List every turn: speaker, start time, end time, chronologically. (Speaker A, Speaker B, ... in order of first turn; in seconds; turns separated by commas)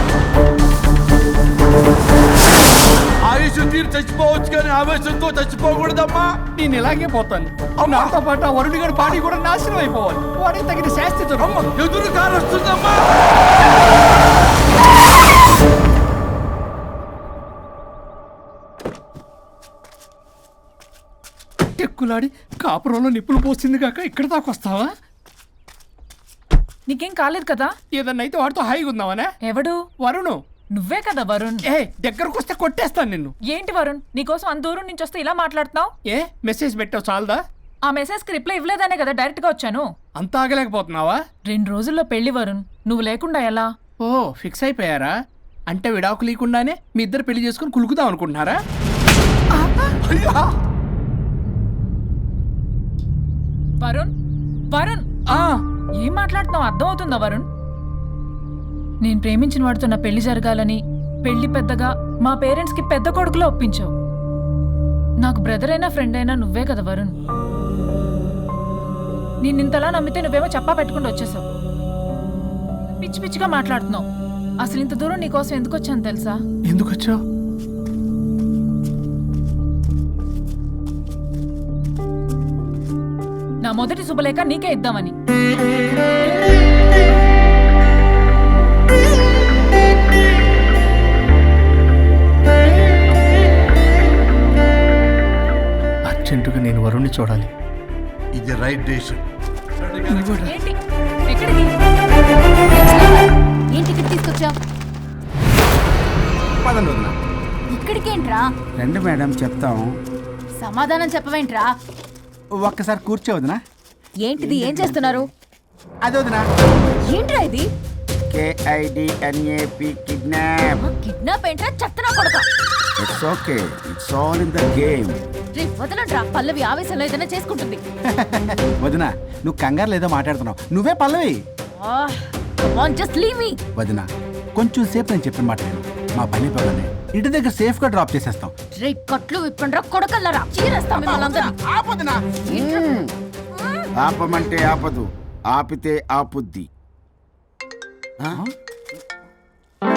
Speaker A: 3.3-6.3, Speaker B: 6.5-11.7, Speaker A: 7.8-8.1, Speaker A: 11.5-13.0, Speaker B: 21.8-24.9, Speaker C: 26.9-27.7, Speaker B: 27.9-29.3, Speaker C: 29.4-29.8, Speaker B: 30.0-30.4, Speaker C: 30.8-31.6, Speaker B: 31.6-33.3, Speaker C: 33.5-35.9, Speaker B: 36.1-37.4, Speaker C: 37.9-39.9, Speaker B: 40.2-41.2, Speaker C: 41.5-43.7, Speaker B: 44.0-45.1, Speaker B: 45.7-48.6, Speaker B: 49.6-50.0, Speaker A: 50.0-50.4, Speaker C: 53.8-54.1, Speaker C: 54.7-55.0, Speaker C: 56.0-57.5, Speaker C: 59.0-63.9, Speaker C: 65.2-67.1, Speaker C: 69.4-71.4, Speaker C: 73.0-74.0, Speaker C: 74.6-76.4, Speaker B: 76.7-77.2, Speaker C: 83.7-85.1, Speaker B: 96.1-97.5, Speaker A: 98.4-99.2, Speaker A: 99.8-100.5, Speaker B: 100.1-100.5, Speaker C: 101.3-101.7, Speaker D: 102.7-104.5, Speaker E: 106.6-107.1, Speaker D: 107.7-108.5, Speaker F: 108.8-109.9, Speaker D: 110.6-111.7, Speaker E: 112.6-113.6, Speaker D: 114.2-115.3, Speaker E: 114.4-115.1, Speaker E: 116.0-116.4, Speaker D: 117.1-117.7, Speaker F: 118.3-120.8, Speaker D: 120.8-122.5, Speaker F: 123.0-125.2, Speaker D: 125.5-127.8, Speaker E: 128.1-131.4, Speaker D: 131.7-133.6, Speaker E: 133.8-138.5, Speaker D: 138.8-141.5, Speaker E: 140.9-142.2, Speaker D: 142.5-143.0, Speaker F: 142.5-143.1, Speaker D: 143.6-143.9, Speaker F: 144.0-146.7